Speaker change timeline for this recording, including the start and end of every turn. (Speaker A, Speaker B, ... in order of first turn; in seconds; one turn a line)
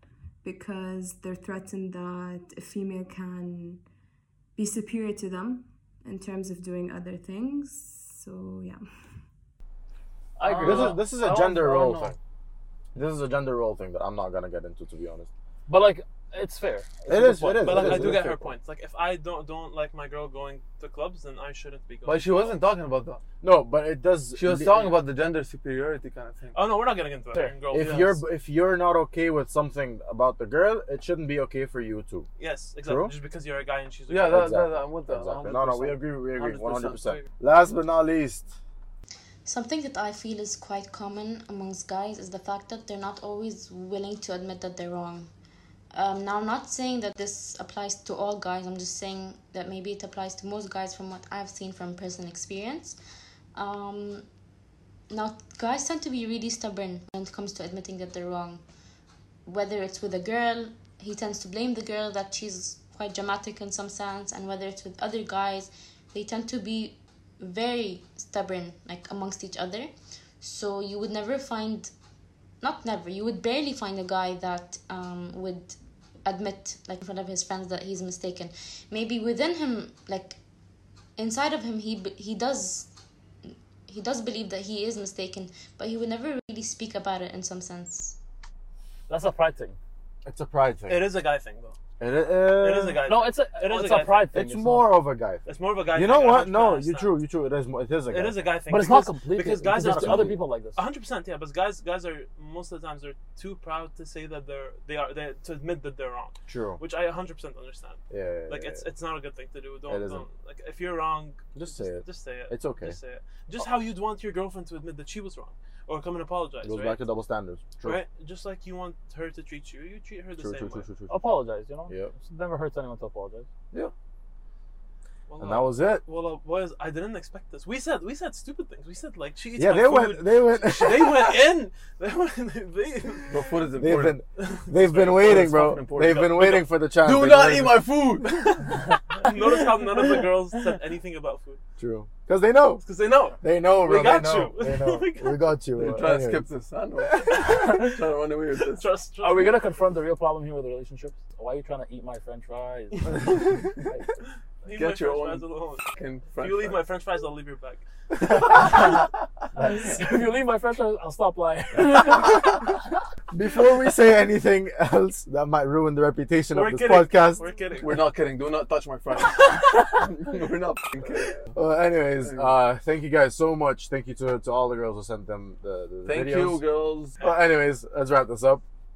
Speaker A: 0.4-3.8
Speaker A: 4.6-8.8
Speaker B: 10.4-12.1
Speaker C: 10.5-11.0
Speaker D: 10.6-12.2
Speaker D: 12.9-15.3
Speaker B: 15.7-18.2
Speaker D: 17.1-18.5
Speaker E: 17.6-22.6
Speaker C: 22.1-23.2
Speaker D: 23.4-25.0
Speaker C: 24.4-26.6
Speaker E: 26.5-28.2
Speaker D: 27.7-32.3
Speaker E: 32.4-34.4
Speaker D: 32.8-33.1
Speaker C: 34.1-37.0
Speaker D: 34.3-38.6
Speaker E: 36.4-37.2
Speaker F: 39.5-45.3
Speaker F: 45.9-53.0
Speaker F: 53.6-54.2
Speaker F: 55.1-58.6
Speaker F: 59.5-69.9
Speaker F: 70.4-71.9
Speaker F: 72.6-80.4
Speaker F: 81.2-82.9
Speaker F: 83.9-88.2
Speaker B: 89.1-89.8
Speaker D: 90.2-91.1
Speaker E: 90.9-91.8
Speaker D: 92.0-93.0
Speaker E: 92.5-94.3
Speaker B: 93.1-94.9
Speaker D: 94.3-98.5
Speaker E: 95.5-97.2
Speaker E: 98.1-117.0
Speaker B: 98.7-100.8
Speaker D: 99.6-100.4
Speaker D: 106.5-106.8
Speaker D: 108.1-108.9
Speaker D: 109.9-110.3
Speaker D: 111.6-113.0
Speaker D: 116.6-118.0
Speaker E: 117.8-120.9
Speaker D: 120.4-121.3
Speaker B: 121.1-123.5
Speaker E: 125.3-133.4
Speaker D: 125.4-126.0
Speaker D: 129.6-131.4
Speaker C: 133.3-134.2
Speaker D: 133.8-137.8
Speaker E: 134.4-136.7
Speaker C: 135.1-136.2
Speaker C: 137.0-138.8
Speaker E: 139.1-141.6
Speaker D: 141.8-142.8
Speaker E: 142.8-145.6
Speaker D: 143.4-146.4
Speaker C: 145.8-148.9
Speaker E: 148.8-149.6
Speaker B: 149.2-154.1
Speaker E: 154.7-155.9
Speaker C: 154.7-156.8
Speaker E: 156.4-157.8
Speaker B: 158.6-162.6
Speaker D: 163.3-167.4
Speaker E: 166.5-168.1
Speaker C: 167.8-171.5
Speaker D: 171.5-176.6
Speaker C: 172.2-172.6
Speaker C: 176.1-177.2
Speaker D: 177.2-178.6